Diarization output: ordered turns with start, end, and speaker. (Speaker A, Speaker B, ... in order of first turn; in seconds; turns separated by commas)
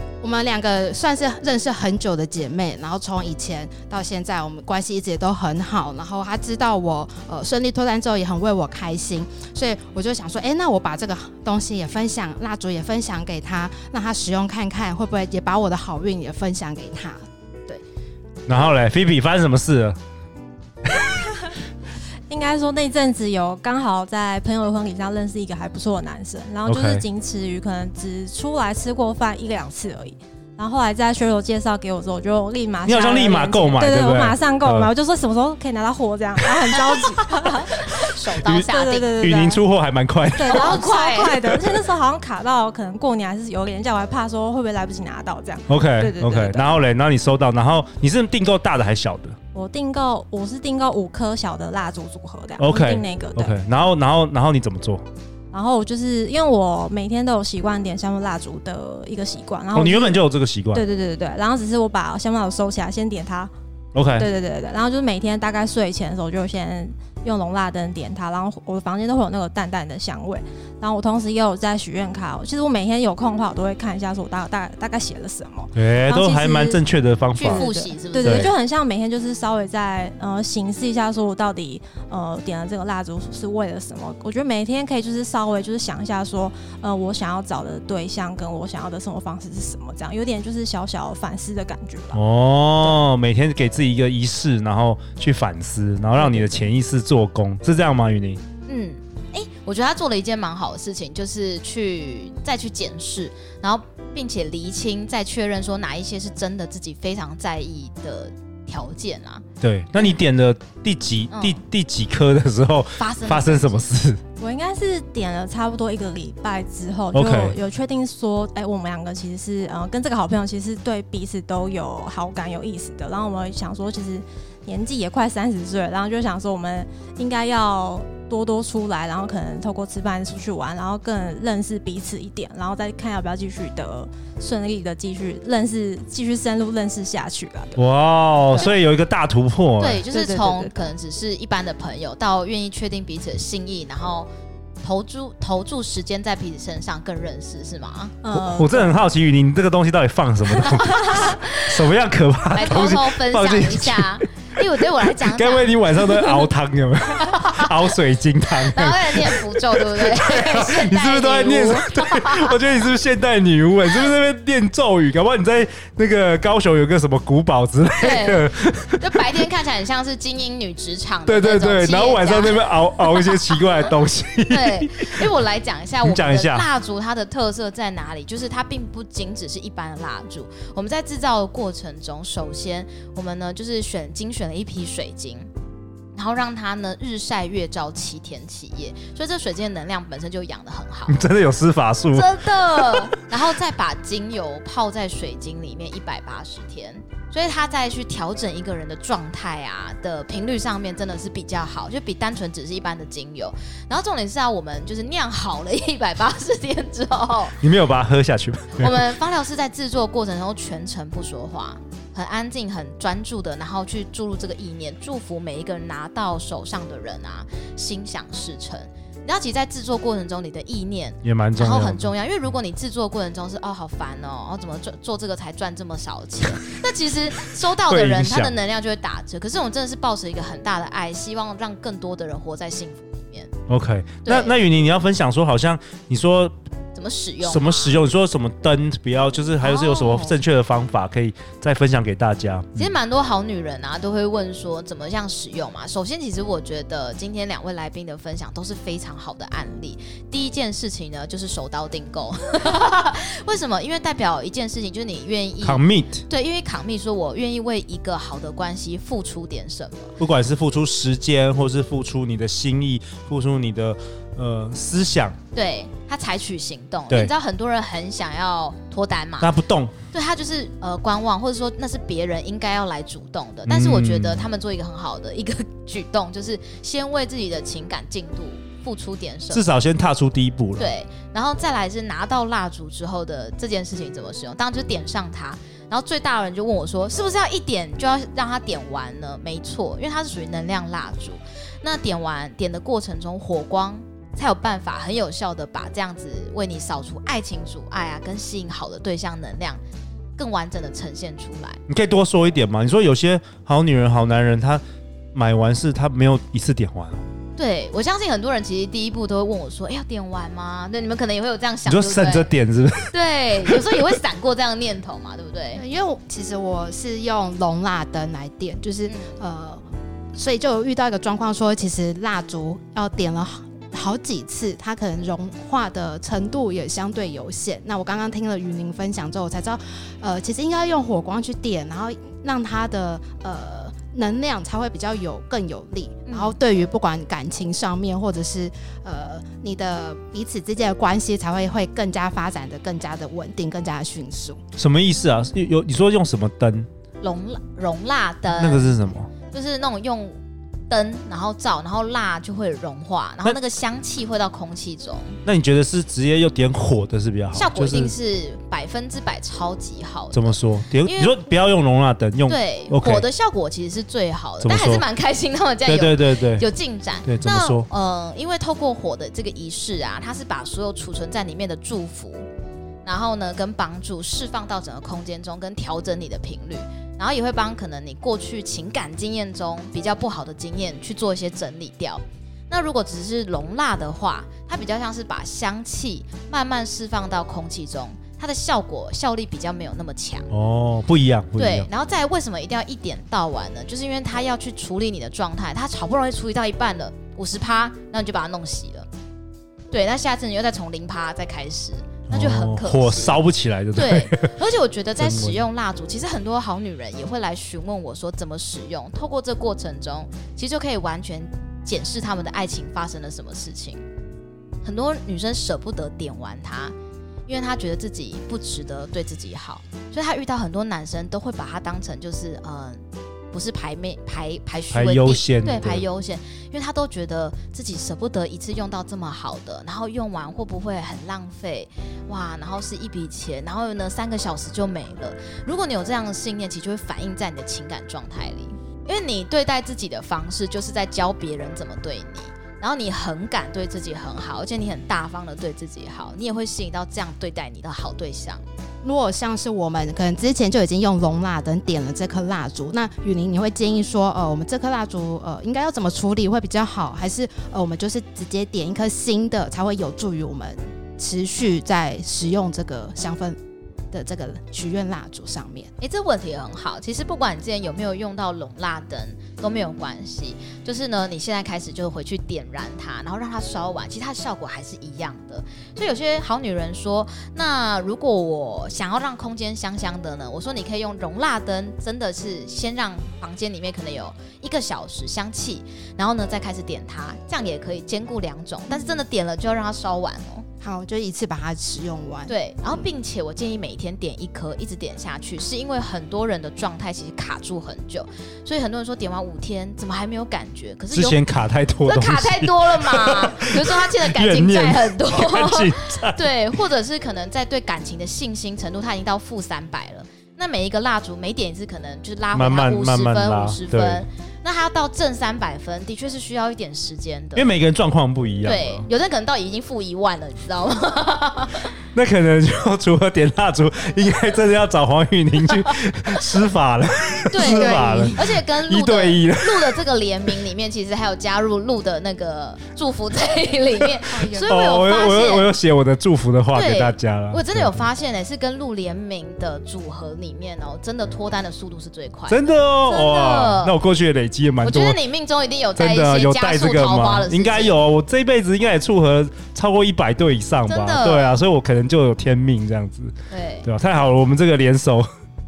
Speaker A: 0.2-17.8, Speaker B: 18.5-20.0, Speaker C: 22.3-39.6, Speaker B: 26.6-27.1, Speaker B: 32.9-34.9, Speaker D: 37.5-39.2, Speaker B: 39.2-40.8, Speaker C: 40.4-46.7, Speaker D: 40.5-41.5, Speaker B: 45.7-49.4, Speaker C: 49.5-53.6, Speaker B: 52.6-55.0, Speaker C: 55.5-63.5, Speaker B: 59.7-60.8, Speaker B: 63.9-64.3, Speaker C: 64.2-76.8, Speaker B: 75.7-78.5, Speaker D: 77.4-78.5, Speaker C: 77.4-92.2, Speaker B: 92.1-98.4, Speaker C: 96.2-96.5, Speaker D: 98.7-109.4, Speaker B: 109.6-114.2, Speaker D: 111.3-111.6, Speaker D: 113.0-113.8, Speaker C: 114.4-137.8, Speaker B: 117.1-117.6, Speaker B: 137.8-140.0, Speaker D: 139.8-144.3, Speaker C: 140.1-140.9, Speaker D: 144.8-148.2, Speaker C: 148.2-149.0, Speaker B: 148.3-154.2, Speaker D: 150.6-151.9, Speaker D: 152.5-155.8, Speaker B: 155.3-169.1, Speaker D: 157.2-157.7, Speaker D: 158.5-162.7, Speaker D: 168.0-173.6, Speaker B: 171.2-175.1, Speaker D: 174.5-185.5, Speaker B: 176.0-176.7, Speaker D: 186.1-191.2, Speaker B: 191.1-193.0, Speaker D: 192.1-207.6, Speaker B: 207.6-209.0, Speaker D: 208.8-233.5, Speaker B: 221.2-222.1, Speaker B: 227.9-228.5, Speaker B: 233.7-236.5, Speaker D: 234.2-234.5, Speaker D: 236.9-238.0, Speaker B: 237.4-242.9, Speaker D: 239.6-240.2, Speaker D: 242.8-260.1, Speaker B: 255.6-256.2, Speaker B: 260.2-265.4, Speaker D: 265.5-269.5, Speaker B: 269.4-269.9, Speaker D: 270.1-279.6, Speaker B: 273.6-274.5, Speaker B: 279.5-280.9, Speaker D: 280.8-299.8, Speaker D: 300.4-301.8, Speaker B: 301.9-304.8, Speaker B: 305.3-307.2, Speaker D: 307.6-312.5, Speaker B: 311.9-314.0, Speaker D: 313.1-315.8, Speaker A: 315.7-319.8, Speaker D: 319.1-319.4, Speaker A: 320.3-344.6, Speaker D: 336.3-336.6, Speaker B: 344.8-346.9, Speaker D: 347.2-350.4, Speaker B: 348.5-349.3, Speaker D: 350.9-355.4, Speaker B: 355.4-358.1, Speaker D: 357.5-361.4, Speaker B: 360.3-363.2, Speaker D: 362.5-372.4, Speaker B: 364.6-365.0, Speaker B: 365.8-366.7, Speaker B: 367.2-367.9, Speaker D: 373.0-390.5, Speaker B: 390.5-391.9, Speaker D: 391.6-399.1, Speaker D: 399.9-414.0, Speaker B: 402.3-404.6, Speaker B: 405.1-405.6, Speaker D: 414.8-416.9, Speaker D: 417.5-448.6, Speaker B: 424.9-426.0, Speaker A: 449.0-463.6, Speaker A: 464.1-465.9, Speaker D: 466.0-490.6, Speaker A: 490.8-492.5, Speaker D: 492.5-517.8, Speaker B: 501.1-506.5, Speaker B: 512.5-514.2, Speaker B: 517.5-519.1, Speaker D: 518.6-521.9, Speaker B: 522.1-530.0, Speaker D: 527.5-535.7, Speaker A: 527.6-528.4, Speaker A: 534.3-534.7, Speaker B: 534.7-538.0, Speaker D: 536.7-544.0, Speaker B: 542.5-545.2, Speaker D: 544.8-548.0, Speaker B: 546.0-553.3, Speaker D: 550.9-551.6, Speaker D: 553.5-553.9, Speaker B: 553.8-555.3